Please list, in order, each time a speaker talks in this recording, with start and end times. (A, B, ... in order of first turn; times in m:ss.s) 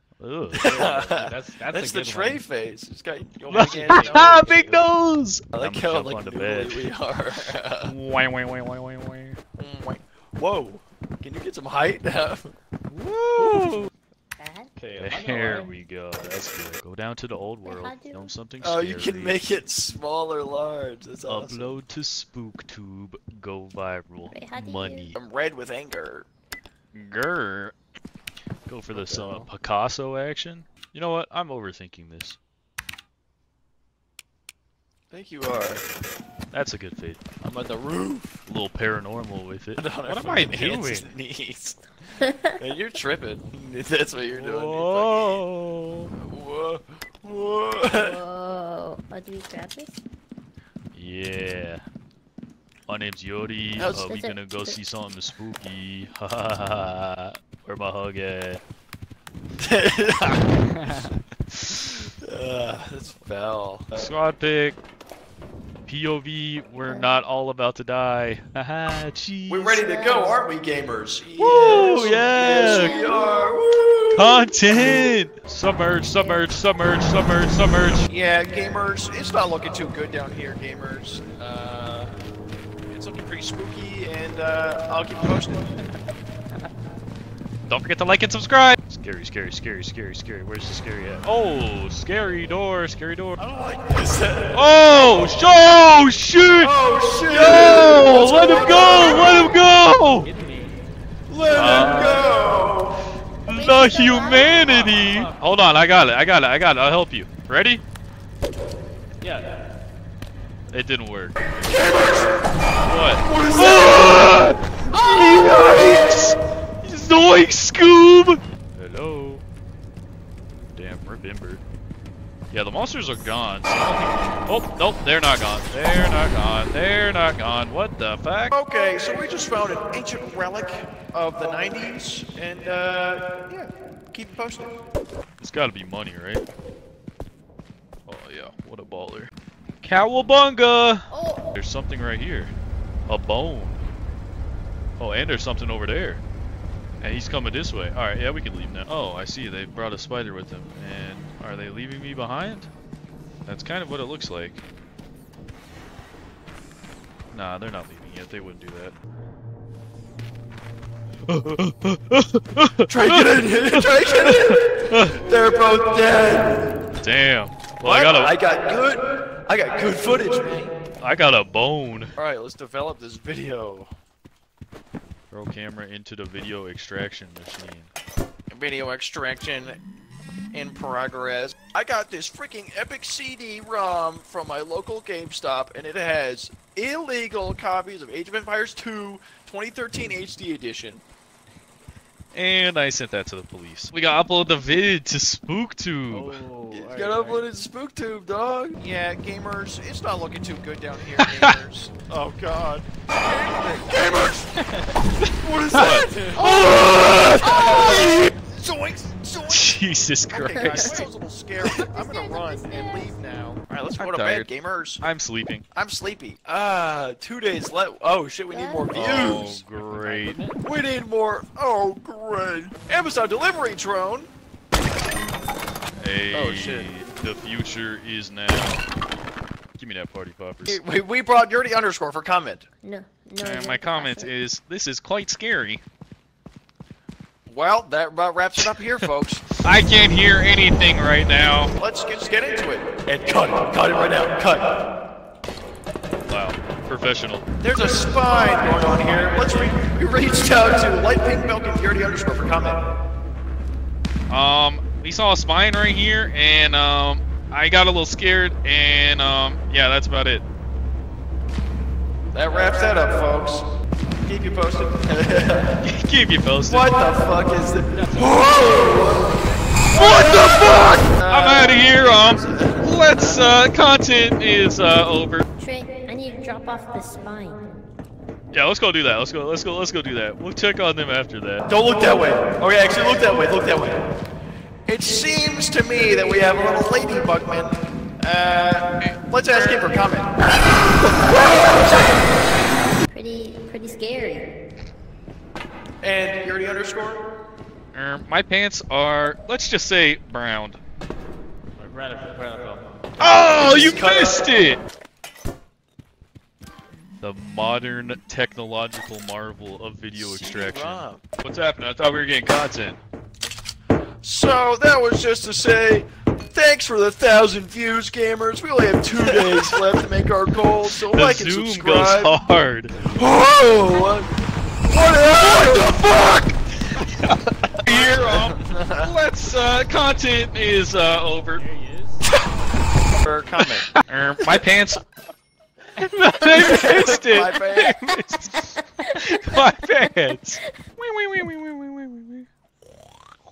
0:00.2-0:00.7 A
0:00.5-0:04.6 B
0:00.6-0:02.4 C
0:03.4-0:04.8 C
0:03.5-0:06.9 A
0:05.5-0:07.9 B
0:07.8-0:09.4 A
0:09.6-0:12.5 B
0:12.9-0:13.9 A
0:13.4-0:13.7 B
0:14.4-0:14.7 D
0:14.8-0:15.7 C
0:15.0-0:19.4 A
0:17.6-0:18.4 D
0:18.6-0:21.8 B
0:21.2-0:25.2 A
0:24.3-0:25.1 D
0:25.1-0:26.3 B
0:26.9-0:27.7 A
0:28.7-0:32.4 A
0:28.9-0:29.5 B
0:35.1-0:35.8 B
0:36.5-0:37.2 A
0:37.4-0:38.4 B
0:38.4-0:41.1 A
0:39.8-0:45.4 B
0:44.2-0:46.1 A
0:46.1-0:48.2 B
0:47.9-0:49.9 D
0:50.9-0:51.8 A
0:52.9-0:58.6 A
0:53.8-0:54.1 B
0:53.9-0:54.8 D
0:59.6-1:00.6 B
1:00.7-1:01.1 C
1:01.5-1:02.0 A
1:02.2-1:04.1 B
1:03.9-1:04.8 A
1:05.9-1:09.8 A
1:06.8-1:07.1 D
1:09.5-1:15.1 B
1:09.9-1:10.4 D
1:11.4-1:13.0 A
1:11.6-1:13.4 D
1:14.1-1:18.1 A
1:16.2-1:16.4 D
1:18.1-1:22.1 B
1:22.9-1:25.7 B
1:27.7-1:33.4 A
1:33.4-1:34.6 B
1:34.5-1:36.7 A
1:36.6-1:39.5 B
1:37.3-1:40.3 A
1:40.2-1:40.8 C
1:41.3-1:43.0 B
1:41.6-1:42.3 A
1:43.4-1:47.8 A
1:43.5-1:44.7 D
1:44.6-1:45.4 C
1:49.2-1:49.5 C
1:50.7-1:51.4 A
1:51.6-1:52.5 B
1:52.8-1:59.4 A
1:53.2-1:54.3 B
2:00.7-2:01.6 A
2:02.5-2:08.5 A
2:08.5-2:14.7 B
2:15.4-2:16.4 A
2:18.1-2:19.3 A
2:19.8-2:22.5 A
2:21.1-2:21.5 D
2:23.1-2:23.8 A
2:25.0-2:26.2 A
2:27.0-2:32.7 A
2:33.5-2:34.6 A
2:37.3-2:38.9 A
2:41.3-2:45.2 A
2:42.9-2:46.8 B
2:47.0-2:48.3 A
2:47.8-2:50.7 B
2:51.0-2:52.1 A
2:52.2-2:53.9 B
2:55.3-2:57.9 A
2:58.5-2:59.8 B
3:00.5-3:11.0 B
3:12.3-3:16.4 A
3:16.1-3:17.4 C
3:16.7-3:24.6 B
3:21.2-3:21.5 A
3:24.5-3:24.9 C
3:25.2-3:28.3 A
3:25.4-3:29.8 B
3:26.4-3:28.1 D
3:29.4-3:31.1 A
3:30.3-3:35.0 B
3:30.6-3:31.0 D
3:31.7-3:33.2 D
3:34.0-3:34.5 A
3:35.0-3:35.6 A
3:35.7-3:39.6 B
3:38.5-3:39.3 D
3:38.9-3:40.4 A
3:39.8-3:40.6 C
3:40.6-3:44.3 B
3:46.0-3:48.8 A
3:46.3-3:46.9 B
3:49.8-3:50.8 A
3:50.6-3:52.6 B
3:52.8-3:54.3 D
3:53.4-3:55.8 A
3:57.5-3:59.6 B
3:58.6-3:59.1 A
3:59.6-4:01.7 A
4:01.8-4:04.7 B
4:06.2-4:07.4 A
4:07.6-4:12.8 B
4:14.3-4:20.4 A
4:22.3-4:23.6 B
4:24.2-4:25.8 B
4:25.8-4:26.9 A
4:26.7-4:30.6 B
4:27.9-4:29.1 C
4:29.9-4:35.4 A
4:31.1-4:33.4 B
4:35.6-4:37.7 D
4:38.5-4:41.6 A
4:41.7-4:44.0 B
4:44.8-4:50.3 B
4:49.0-4:50.0 A
4:51.3-4:51.8 A
4:53.1-4:54.5 D
4:56.0-4:57.2 B
4:57.9-5:00.8 A
5:01.8-5:02.8 C
5:03.2-5:04.8 A
5:03.2-5:04.5 B
5:07.2-5:13.0 A
5:10.1-5:11.2 B
5:14.2-5:22.4 B
5:19.2-5:20.0 A
5:20.8-5:22.9 A
5:22.9-5:23.7 C
5:23.1-5:24.3 B
5:24.9-5:25.9 B
5:24.9-5:31.6 A
5:27.9-5:29.1 B
5:31.6-5:32.3 C
5:33.2-5:33.9 B
5:33.6-5:35.0 A
5:36.0-5:42.5 A
5:36.5-5:37.9 B
5:38.1-5:40.7 D